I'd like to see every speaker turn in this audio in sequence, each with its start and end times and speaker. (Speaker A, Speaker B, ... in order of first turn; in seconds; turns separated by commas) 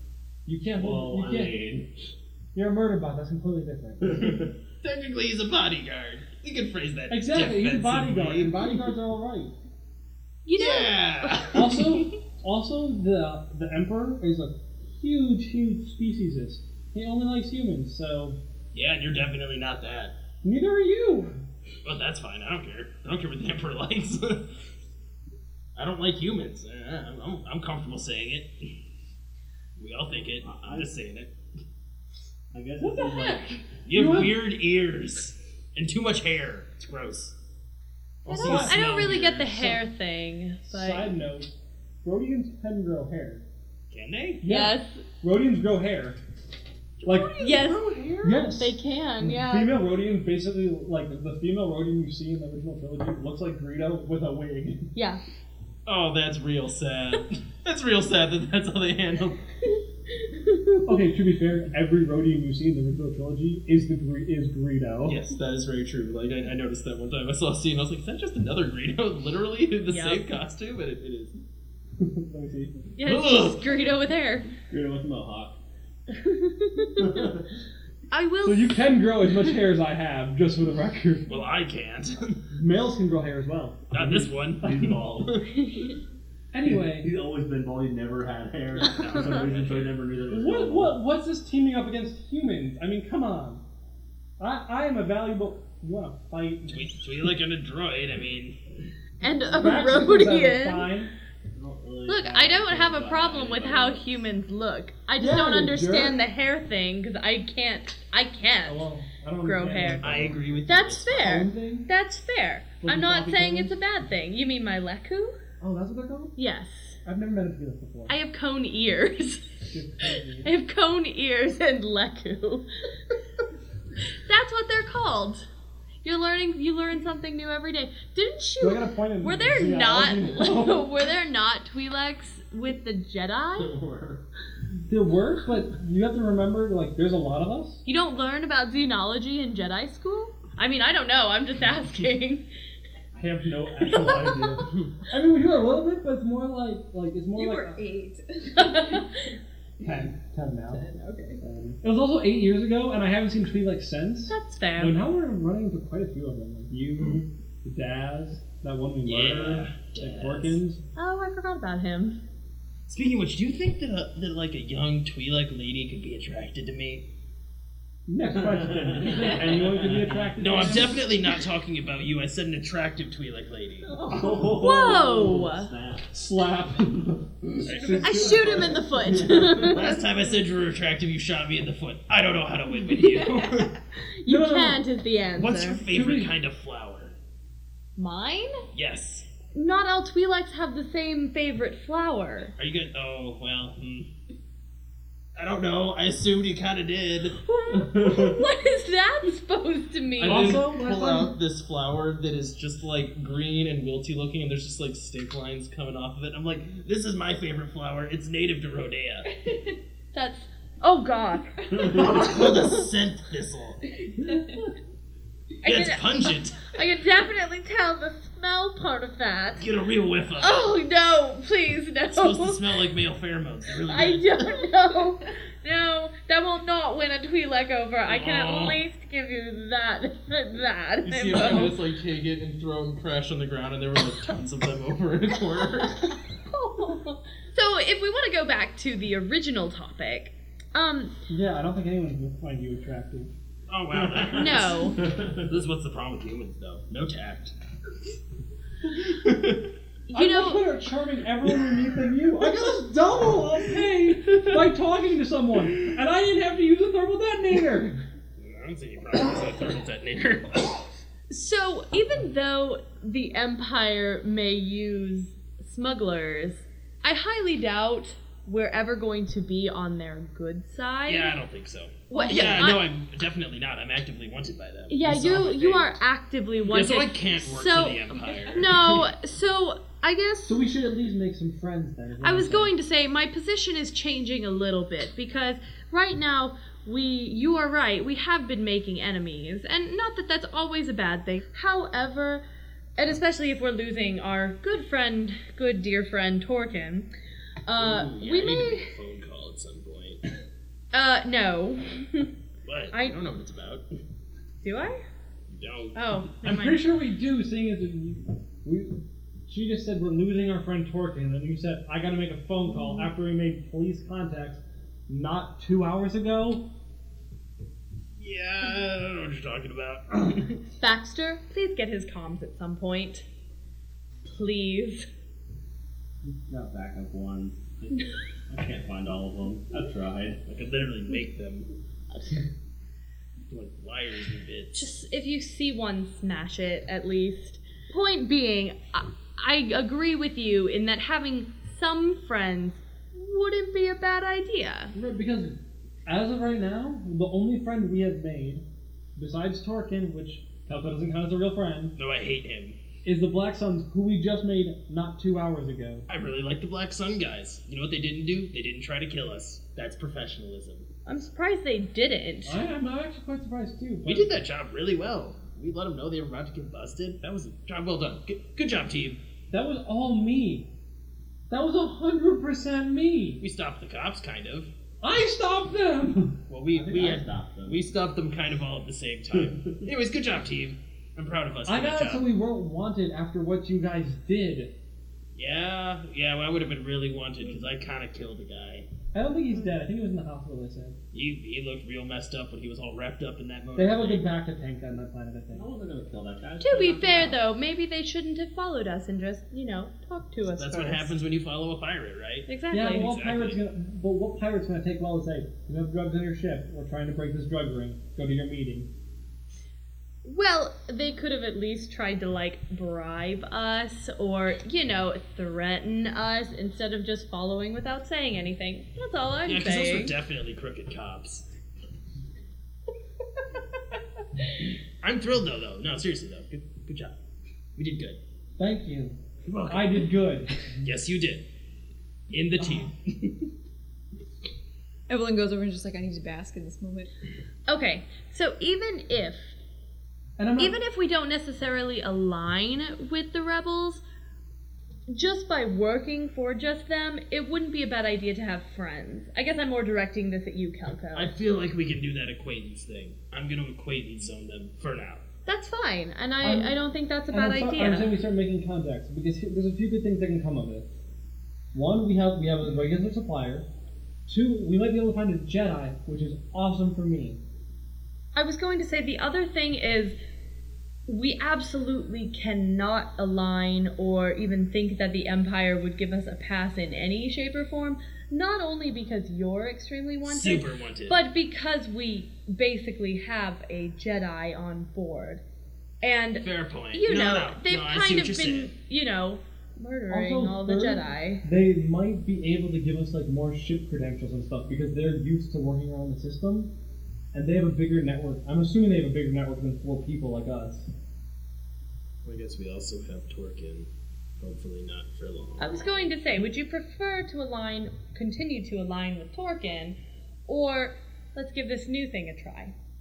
Speaker A: 0.5-1.6, Speaker B: 0.8-1.9, Speaker A: 2.5-4.5, Speaker B: 4.0-4.5, Speaker C: 4.8-8.8, Speaker A: 7.1-9.5, Speaker D: 10.4-11.7, Speaker C: 10.6-12.1, Speaker A: 11.5-18.4, Speaker C: 18.7-20.1, Speaker A: 20.4-21.4, Speaker C: 21.8-24.6, Speaker C: 25.8-28.5, Speaker C: 29.8-31.3, Speaker B: 30.4-30.9, Speaker B: 32.5-33.6, Speaker A: 32.8-34.4, Speaker C: 33.9-37.4, Speaker C: 38.2-39.8, Speaker A: 38.3-38.8, Speaker D: 38.3-41.1, Speaker A: 40.7-41.5, Speaker A: 42.0-43.4, Speaker C: 43.9-44.4, Speaker A: 44.4-46.2, Speaker D: 44.5-45.0, Speaker C: 47.0-48.4, Speaker A: 47.0-47.4, Speaker D: 47.4-49.7, Speaker A: 48.2-54.9, Speaker D: 55.0-55.2, Speaker C: 55.9-59.4, Speaker D: 60.2-60.9, Speaker A: 60.8-65.2, Speaker C: 65.0-71.4, Speaker D: 69.9-70.2, Speaker A: 72.0-72.8, Speaker D: 73.0-74.5, Speaker C: 73.0-73.7, Speaker B: 74.7-75.6, Speaker D: 76.1-77.3, Speaker B: 77.0-77.5, Speaker D: 78.1-78.8, Speaker A: 78.4-81.3, Speaker C: 81.3-82.5, Speaker A: 82.5-84.0, Speaker C: 83.9-85.5, Speaker B: 84.0-85.4, Speaker D: 85.6-85.9, Speaker A: 86.5-87.1, Speaker B: 86.7-91.0, Speaker C: 88.8-90.0, Speaker D: 89.1-89.4, Speaker A: 90.3-93.6, Speaker A: 94.4-96.9, Speaker C: 96.7-98.6, Speaker D: 99.2-100.9, Speaker A: 99.5-101.1, Speaker B: 101.5-104.2, Speaker D: 102.1-108.8, Speaker A: 105.2-106.2, Speaker A: 108.6-110.6, Speaker D: 109.4-110.0, Speaker C: 110.0-111.4, Speaker D: 110.7-115.4, Speaker A: 111.1-111.9, Speaker A: 112.8-113.8, Speaker A: 115.6-116.3, Speaker D: 116.4-117.0, Speaker A: 117.0-118.1, Speaker D: 118.1-119.6, Speaker A: 119.7-120.5, Speaker D: 120.4-122.7, Speaker D: 124.3-125.5, Speaker D: 126.0-133.8, Speaker A: 128.6-130.9, Speaker B: 133.5-134.2, Speaker A: 134.9-137.8, Speaker D: 137.9-142.4, Speaker A: 143.1-147.8, Speaker D: 143.9-144.6, Speaker E: 147.3-149.2, Speaker D: 148.6-149.3, Speaker A: 149.8-150.9, Speaker E: 150.7-151.4, Speaker A: 151.4-160.8, Speaker B: 151.4-151.7, Speaker D: 154.3-155.0, Speaker C: 159.1-160.6, Speaker D: 161.0-162.2, Speaker C: 162.9-167.1, Speaker A: 168.1-171.1, Speaker B: 168.2-170.3, Speaker C: 169.2-169.8, Speaker C: 170.4-173.9, Speaker B: 173.9-180.1, Speaker A: 174.2-174.5, Speaker D: 174.5-175.7, Speaker A: 176.1-178.7, Speaker C: 177.6-178.8, Speaker D: 178.0-179.9, Speaker C: 179.5-183.7, Speaker D: 182.9-185.8, Speaker A: 184.3-184.8, Speaker C: 185.4-187.2, Speaker A: 185.9-186.3, Speaker D: 188.0-188.7, Speaker C: 188.7-189.3, Speaker D: 189.5-192.5, Speaker C: 192.6-194.1, Speaker C: 195.4-197.4, Speaker D: 197.4-200.6, Speaker B: 197.7-198.4, Speaker C: 200.2-209.3, Speaker A: 200.2-201.4, Speaker D: 210.1-212.8, Speaker B: 211.8-212.2, Speaker C: 211.8-213.9, Speaker D: 214.2-214.5, Speaker C: 215.6-216.8, Speaker D: 215.6-219.6, Speaker C: 219.6-220.7, Speaker D: 220.4-222.6, Speaker C: 222.1-224.6, Speaker D: 223.8-231.8, Speaker C: 228.1-228.8, Speaker C: 231.1-236.1, Speaker A: 231.4-231.7, Speaker D: 236.5-241.1, Speaker A: 241.3-243.3, Speaker C: 243.7-247.5, Speaker B: 243.9-245.5, Speaker D: 244.3-245.0, Speaker C: 248.9-249.7, Speaker D: 250.1-250.7, Speaker A: 250.1-258.0, Speaker C: 254.3-254.6, Speaker C: 258.4-260.9, Speaker D: 261.3-271.4, Speaker C: 271.1-275.9, Speaker D: 272.1-272.9, Speaker D: 274.9-280.6, Speaker C: 276.7-279.1, Speaker A: 280.5-282.7, Speaker D: 282.2-292.4, Speaker D: 293.0-297.1, Speaker D: 297.7-298.9, Speaker C: 297.8-300.2, Speaker D: 300.9-302.3, Speaker C: 302.6-303.8, Speaker D: 302.9-303.2, Speaker D: 304.6-305.0, Speaker C: 305.5-306.0, Speaker D: 305.9-306.8, Speaker A: 306.4-316.7, Speaker C: 318.2-320.6, Speaker D: 320.8-323.2, Speaker D: 324.3-325.1, Speaker B: 326.3-330.4, Speaker C: 330.5-331.7, Speaker C: 333.5-334.9, Speaker D: 334.8-344.9, Speaker A: 344.9-348.6, Speaker A: 349.2-352.0, Speaker C: 352.0-352.8, Speaker A: 353.1-356.1, Speaker C: 356.1-360.9, Speaker D: 361.1-362.6, Speaker A: 362.4-364.3, Speaker C: 364.1-369.2, Speaker A: 369.5-370.7, Speaker A: 371.5-373.4, Speaker C: 373.4-374.7, Speaker A: 375.0-377.1, Speaker C: 376.5-382.2, Speaker B: 376.8-377.8, Speaker A: 381.7-384.7, Speaker C: 385.4-388.9, Speaker A: 389.1-391.0, Speaker C: 391.1-394.3, Speaker A: 393.8-395.7, Speaker B: 395.5-397.4, Speaker D: 396.6-401.1, Speaker C: 400.6-403.6, Speaker D: 402.5-403.1, Speaker A: 402.7-408.9, Speaker D: 410.2-420.2, Speaker C: 419.4-421.5, Speaker C: 425.0-427.1, Speaker C: 427.8-428.2, Speaker A: 428.6-430.6, Speaker C: 429.5-431.4, Speaker C: 432.3-433.5, Speaker A: 432.6-432.9, Speaker E: 435.1-437.1, Speaker D: 437.7-439.6, Speaker A: 440.4-440.8, Speaker D: 440.6-444.0, Speaker D: 445.1-451.3, Speaker C: 451.1-455.2, Speaker D: 455.5-458.2, Speaker A: 456.4-456.8, Speaker A: 457.3-460.9, Speaker A: 461.7-463.7, Speaker A: 464.3-467.4, Speaker D: 468.4-470.2, Speaker D: 471.1-485.4, Speaker C: 480.2-481.2, Speaker D: 486.0-491.4, Speaker C: 486.4-488.7, Speaker A: 490.1-496.7, Speaker A: 497.3-500.9, Speaker C: 502.2-503.9, Speaker C: 504.4-506.1, Speaker D: 505.6-512.7